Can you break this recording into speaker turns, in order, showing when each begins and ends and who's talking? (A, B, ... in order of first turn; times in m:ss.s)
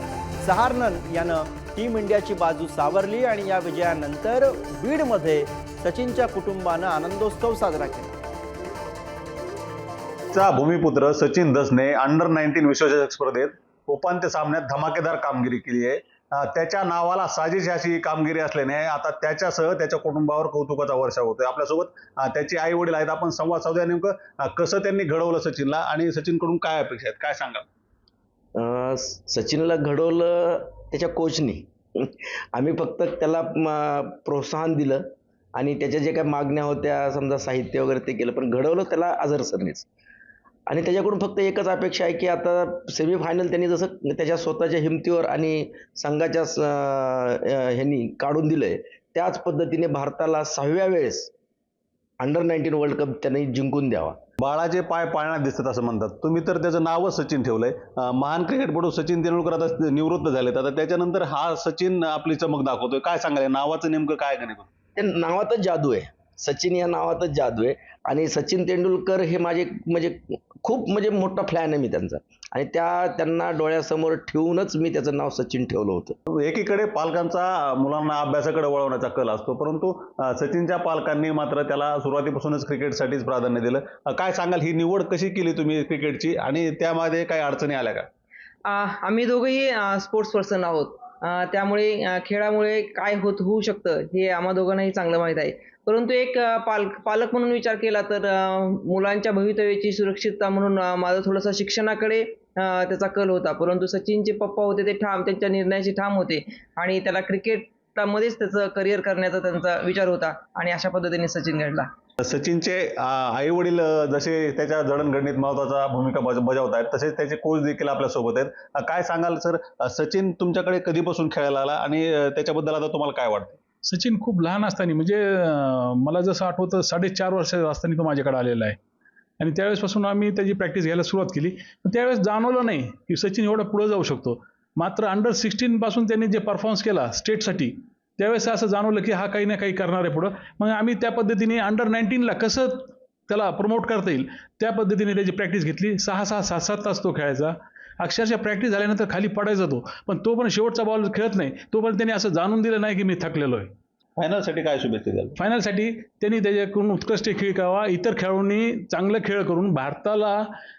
0:00.4-0:08.2 A
0:10.3-0:27.6 B
0:28.5-0:39.8 C
0:40.7-0:51.3 C
0:52.2-0:54.2 C
0:54.4-1:04.7 B
1:05.0-1:16.2 C
1:16.3-1:28.1 B
1:28.6-1:51.9 D
1:52.2-2:03.6 B
2:03.8-2:08.8 E
2:09.4-2:33.7 E
2:34.2-2:35.4 B
2:35.4-2:40.4 E